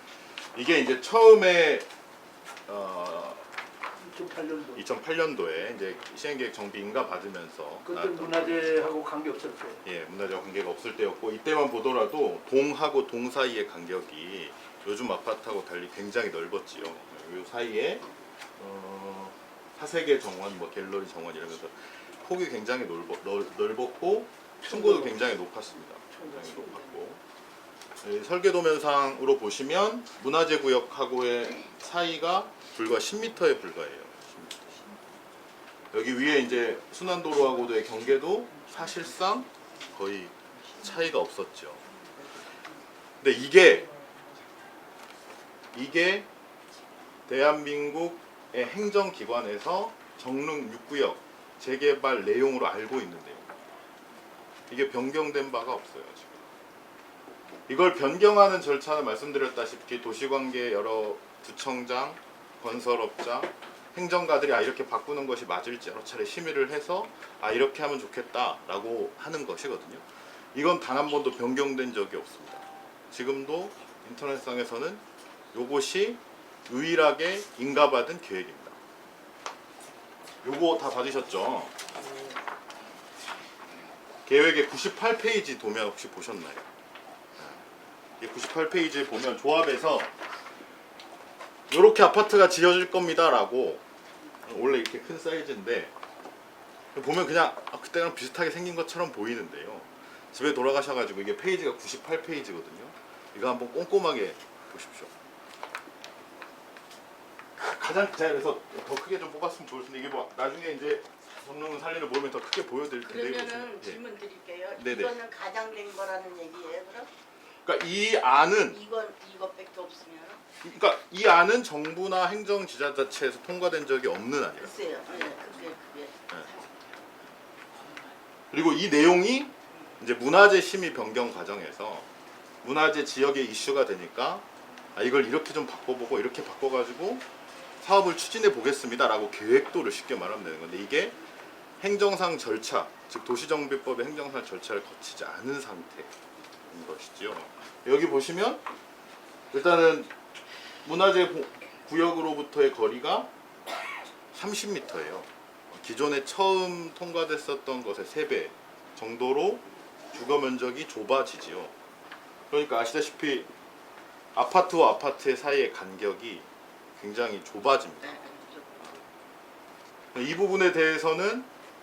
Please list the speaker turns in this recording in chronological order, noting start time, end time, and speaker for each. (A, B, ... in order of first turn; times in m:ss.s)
0:00.4-0:01.9 A
0:02.7-0:03.5 A
0:04.0-0:04.8 B
0:04.8-0:08.8 A
0:07.9-0:09.8 B
0:09.8-0:18.1 A
0:18.6-0:27.2 A
0:24.7-0:25.2 B
0:26.1-0:26.8 B
0:28.0-0:34.8 A
0:35.9-0:41.8 A
0:43.2-0:43.9 A
0:45.7-0:46.3 A
0:47.3-0:53.5 A
0:54.7-0:56.5 A
0:57.7-1:15.0 A
1:15.5-1:18.8 A
1:20.4-1:21.8 A
1:24.2-1:26.7 A
1:28.2-1:30.1 A
1:31.7-1:33.8 A
1:34.5-1:35.9 A
1:36.9-1:45.1 A
1:47.6-1:54.0 A
1:53.0-1:57.1 C
1:54.8-1:55.2 A
1:57.6-1:58.8 A
1:58.7-2:00.4 C
2:00.6-2:04.8 A
2:04.6-2:06.6 C
2:08.5-2:12.1 A
2:12.6-2:17.2 A
2:17.8-2:21.2 A
2:21.8-2:26.1 A
2:26.7-2:28.6 A
2:29.5-2:30.1 A
2:30.8-2:33.3 A
2:34.3-2:41.7 A
2:42.5-2:43.5 A
2:44.4-2:49.0 A
2:48.1-2:48.8 C
2:50.1-2:51.5 A